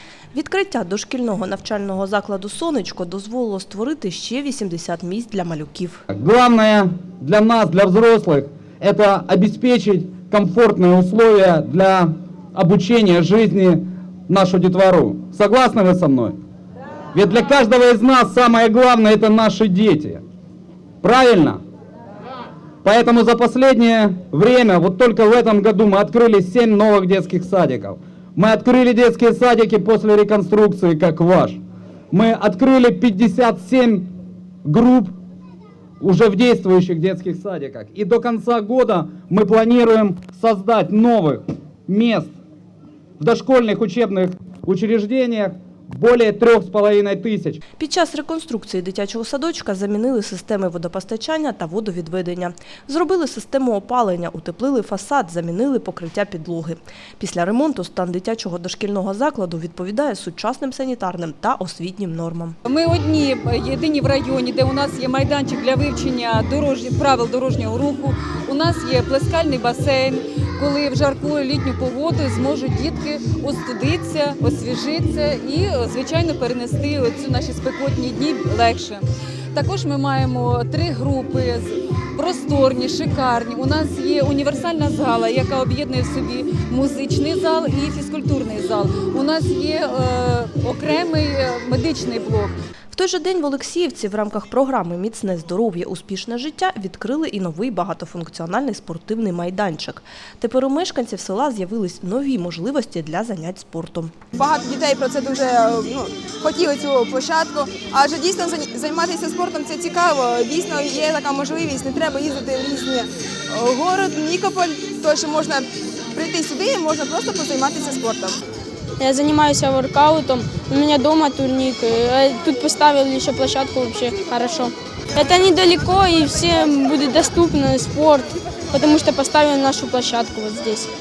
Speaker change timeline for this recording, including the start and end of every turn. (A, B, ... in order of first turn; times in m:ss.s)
0:00.3-0:06.0 A
0:06.1-0:16.4 B
0:17.1-0:20.2 B
0:21.0-0:21.6 B
0:22.8-0:31.6 B
0:32.1-0:34.1 B
0:34.6-0:35.1 B
0:36.0-0:42.3 B
0:43.2-0:47.6 B
0:47.8-1:02.6 A
1:02.6-1:32.6 C
1:32.9-1:44.1 A
1:44.4-1:58.4 D
1:59.0-2:10.9 E